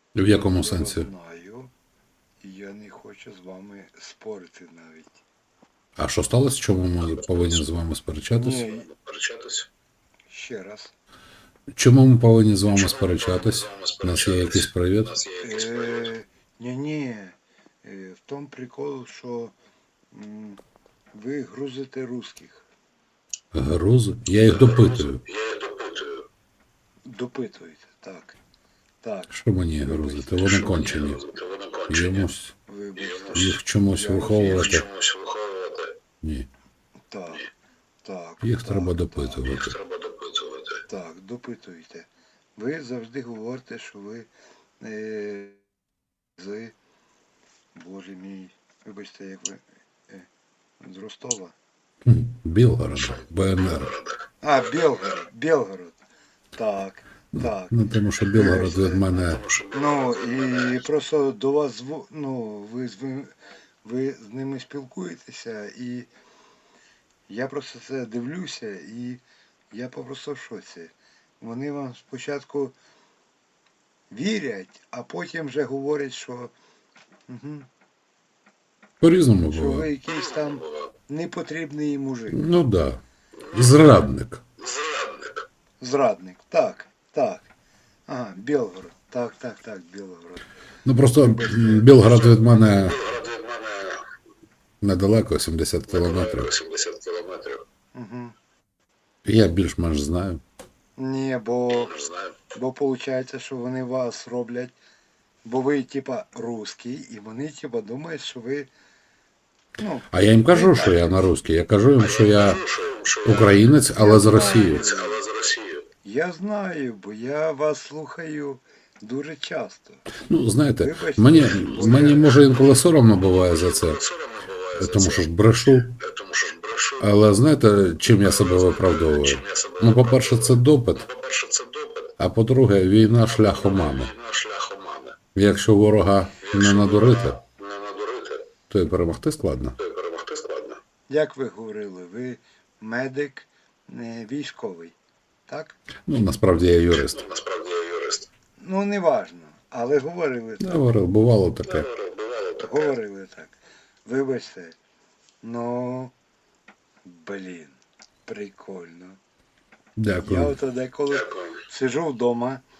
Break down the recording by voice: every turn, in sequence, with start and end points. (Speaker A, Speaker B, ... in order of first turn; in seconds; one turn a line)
Speaker A: 0.1-1.1
Speaker B: 0.3-1.7
Speaker B: 2.4-5.2
Speaker A: 6.0-8.7
Speaker B: 8.4-8.9
Speaker C: 9.1-9.7
Speaker B: 10.3-10.9
Speaker A: 11.7-15.2
Speaker C: 15.3-15.8
Speaker B: 15.4-19.6
Speaker B: 20.1-20.6
Speaker B: 21.1-22.6
Speaker A: 23.5-25.2
Speaker C: 25.3-26.2
Speaker B: 27.1-28.4
Speaker B: 29.0-30.4
Speaker A: 29.3-31.2
Speaker C: 30.7-32.1
Speaker A: 31.9-32.5
Speaker B: 32.7-34.8
Speaker A: 33.3-34.9
Speaker C: 34.6-35.9
Speaker A: 36.2-36.5
Speaker B: 37.1-37.5
Speaker B: 38.0-39.6
Speaker A: 38.4-39.8
Speaker C: 39.8-40.8
Speaker B: 40.9-44.3
Speaker B: 44.8-45.6
Speaker B: 46.4-46.7
Speaker B: 47.8-50.3
Speaker B: 50.8-51.5
Speaker A: 52.1-54.0
Speaker B: 54.4-56.0
Speaker B: 56.5-57.8
Speaker A: 57.3-59.5
Speaker B: 58.3-59.0
Speaker B: 59.7-63.3
Speaker B: 63.8-66.1
Speaker B: 67.3-72.8
Speaker B: 74.1-76.5
Speaker B: 77.3-77.7
Speaker A: 79.0-79.9
Speaker B: 79.5-82.5
Speaker A: 82.3-84.4
Speaker C: 84.7-85.3
Speaker B: 85.8-87.5
Speaker B: 88.1-90.4
Speaker A: 90.8-93.1
Speaker B: 91.2-92.0
Speaker C: 93.0-94.0
Speaker A: 94.8-96.5
Speaker C: 96.4-97.6
Speaker B: 97.9-98.3
Speaker A: 99.2-100.4
Speaker B: 101.0-102.0
Speaker B: 102.5-104.8
Speaker B: 105.4-108.7
Speaker B: 109.8-111.0
Speaker A: 110.1-112.7
Speaker C: 112.8-113.2
Speaker A: 113.2-114.8
Speaker B: 114.0-115.2
Speaker C: 115.0-115.8
Speaker B: 116.0-120.0
Speaker A: 120.2-124.0
Speaker B: 120.8-122.3
Speaker C: 124.0-124.9
Speaker A: 124.8-126.0
Speaker C: 126.0-127.0
Speaker A: 127.0-131.1
Speaker C: 129.4-129.9
Speaker C: 131.2-132.1
Speaker A: 132.2-134.1
Speaker C: 134.1-135.2
Speaker A: 135.3-137.4
Speaker C: 137.6-138.4
Speaker A: 138.7-139.8
Speaker C: 139.8-140.8
Speaker B: 141.1-145.0
Speaker B: 145.5-145.8
Speaker A: 146.1-147.3
Speaker C: 147.3-148.2
Speaker B: 148.6-150.8
Speaker A: 150.6-151.9
Speaker C: 151.9-152.7
Speaker B: 152.6-154.8
Speaker B: 155.4-156.1
Speaker B: 157.1-159.2
Speaker A: 160.0-160.6
Speaker B: 160.2-162.6